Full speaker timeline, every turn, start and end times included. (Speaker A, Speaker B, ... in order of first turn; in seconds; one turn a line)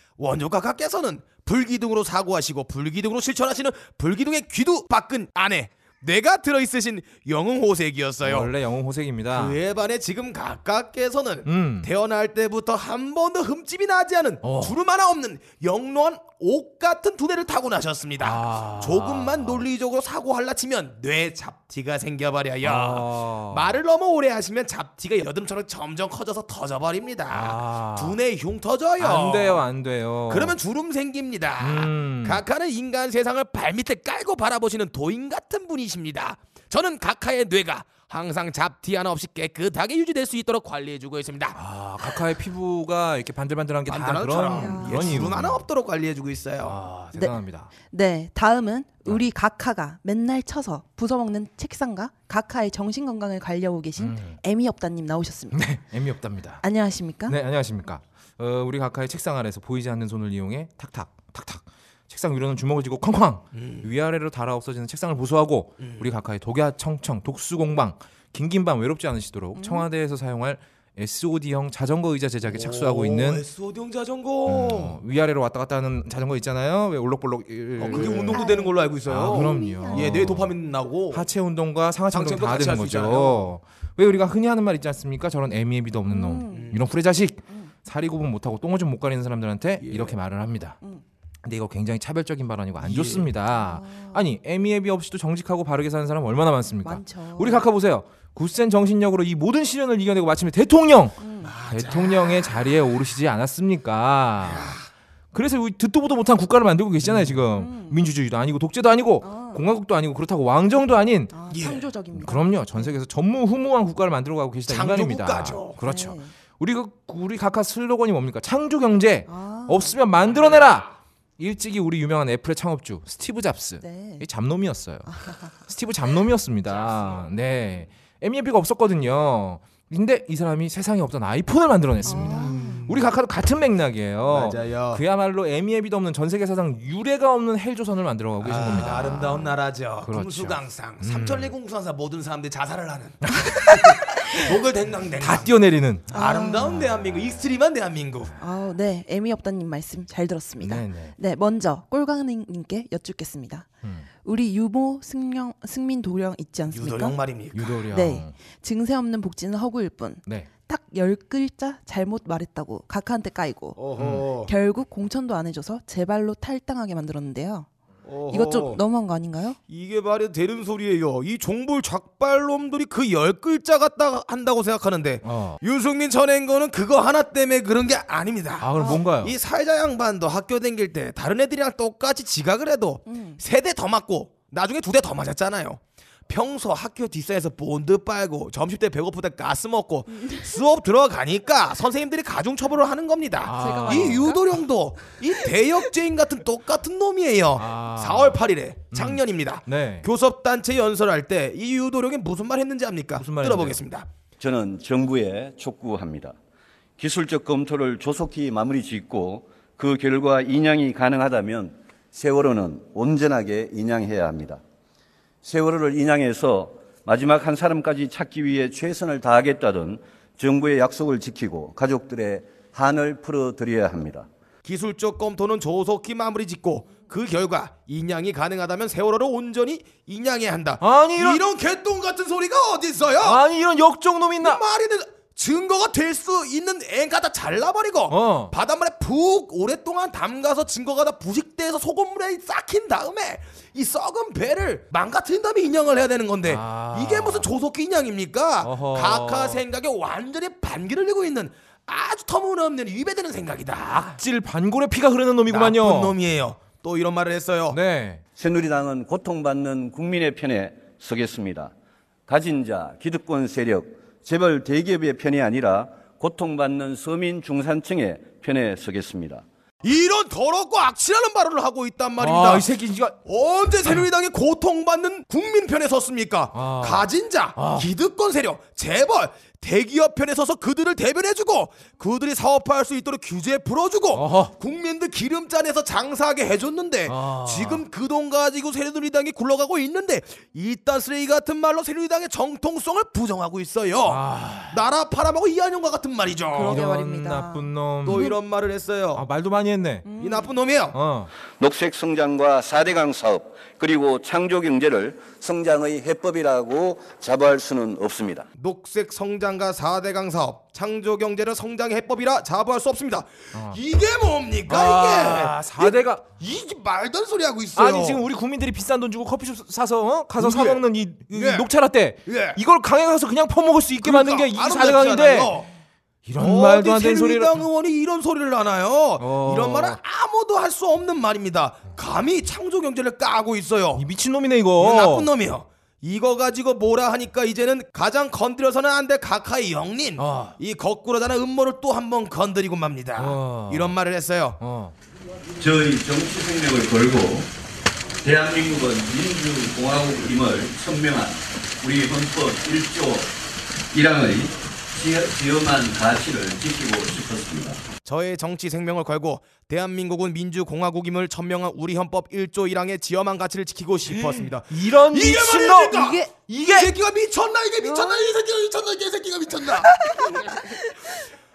Speaker A: 0.2-8.5
Speaker B: 8.2-9.6
Speaker A: 9.3-29.6
Speaker B: 11.5-11.9
Speaker B: 14.4-14.8
Speaker B: 18.2-19.6
Speaker B: 22.6-23.7
Speaker B: 27.3-28.2
Speaker B: 29.0-30.6
Speaker A: 30.3-42.2
Speaker B: 31.6-32.4
Speaker B: 41.5-45.7
Speaker A: 43.9-46.8
Speaker C: 44.5-45.3
Speaker B: 46.6-47.7
Speaker C: 47.1-55.7
Speaker B: 54.0-54.4
Speaker B: 55.5-56.6
Speaker C: 56.6-57.4
Speaker B: 57.3-73.4
Speaker A: 63.5-63.9
Speaker A: 65.8-66.1
Speaker C: 69.6-69.9
Speaker A: 72.4-75.0
Speaker B: 74.5-78.4
Speaker A: 77.8-81.3
Speaker C: 77.9-80.2
Speaker B: 79.1-80.5
Speaker B: 81.1-90.8
Speaker A: 82.1-83.5
Speaker C: 86.1-86.8
Speaker A: 86.5-86.8
Speaker A: 89.8-90.2
Speaker B: 91.4-104.7
Speaker A: 92.8-93.3
Speaker C: 93.5-94.2
Speaker C: 96.8-97.7
Speaker C: 101.2-101.6
Speaker A: 101.4-102.6
Speaker A: 104.4-104.8
Speaker B: 105.3-111.4
Speaker A: 107.0-107.4
Speaker C: 107.5-108.0
Speaker C: 109.2-109.7
Speaker C: 111.3-113.0
Speaker A: 111.5-111.9
Speaker B: 112.1-141.5
Speaker A: 114.7-115.8
Speaker C: 115.8-116.3
Speaker C: 119.3-120.0
Speaker A: 120.3-120.6
Speaker C: 123.8-124.2
Speaker C: 125.1-125.5
Speaker A: 126.7-127.3
Speaker C: 132.1-132.9
Speaker A: 132.1-133.1
Speaker A: 134.3-135.0
Speaker A: 138.4-145.5
Speaker B: 143.3-144.5
Speaker B: 145.2-146.1
Speaker A: 146.1-148.3
Speaker C: 146.1-146.8
Speaker C: 148.4-153.7
Speaker B: 150.6-151.2
Speaker C: 154.2-157.2
Speaker A: 156.7-157.8
Speaker B: 157.5-158.3
Speaker C: 157.9-163.8
Speaker A: 163.8-164.5
Speaker B: 164.0-164.3
Speaker C: 164.4-167.7
Speaker A: 168.1-168.8
Speaker C: 168.3-169.6
Speaker A: 169.7-204.1
Speaker B: 175.2-175.6
Speaker B: 178.6-179.3
Speaker C: 183.1-183.4
Speaker C: 190.1-190.5
Speaker B: 193.4-194.3
Speaker C: 193.6-194.5
Speaker B: 197.6-200.1
Speaker B: 203.2-203.8
Speaker D: 204.4-206.4
Speaker D: 207.0-214.6
Speaker D: 215.4-224.3
Speaker A: 224.7-233.4
Speaker B: 230.8-231.4
Speaker B: 233.2-234.6
Speaker A: 234.4-254.2
Speaker B: 238.1-238.5
Speaker B: 246.4-247.5
Speaker B: 248.6-249.6
Speaker B: 253.8-256.1
Speaker A: 255.5-257.8
Speaker B: 257.7-258.2
Speaker D: 258.4-261.7
Speaker D: 262.3-269.4
Speaker A: 269.8-272.7
Speaker B: 272.2-273.2
Speaker A: 273.2-296.8
Speaker B: 276.5-277.9
Speaker B: 284.1-284.5
Speaker B: 287.1-287.9
Speaker B: 294.1-294.8
Speaker C: 296.5-298.4
Speaker B: 296.6-298.3
Speaker A: 298.0-299.2
Speaker B: 299.1-300.1
Speaker C: 300.1-300.5
Speaker A: 300.2-301.0
Speaker B: 300.9-301.3
Speaker D: 301.5-308.5
Speaker A: 308.6-318.2
Speaker B: 313.5-313.8
Speaker B: 314.7-316.3
Speaker B: 317.8-325.5
Speaker A: 320.4-321.7
Speaker A: 322.3-322.6
Speaker A: 324.0-325.7
Speaker B: 326.2-327.6
Speaker A: 326.4-334.1
Speaker B: 329.2-330.0
Speaker B: 334.0-335.3
Speaker A: 334.8-344.6
Speaker B: 340.2-340.6
Speaker B: 343.2-344.0
Speaker B: 344.6-344.9
Speaker D: 345.6-347.5
Speaker D: 348.2-353.4
Speaker D: 353.9-357.8
Speaker A: 358.1-370.5
Speaker B: 364.1-366.9
Speaker C: 365.9-366.3
Speaker C: 367.8-368.2
Speaker C: 369.9-371.1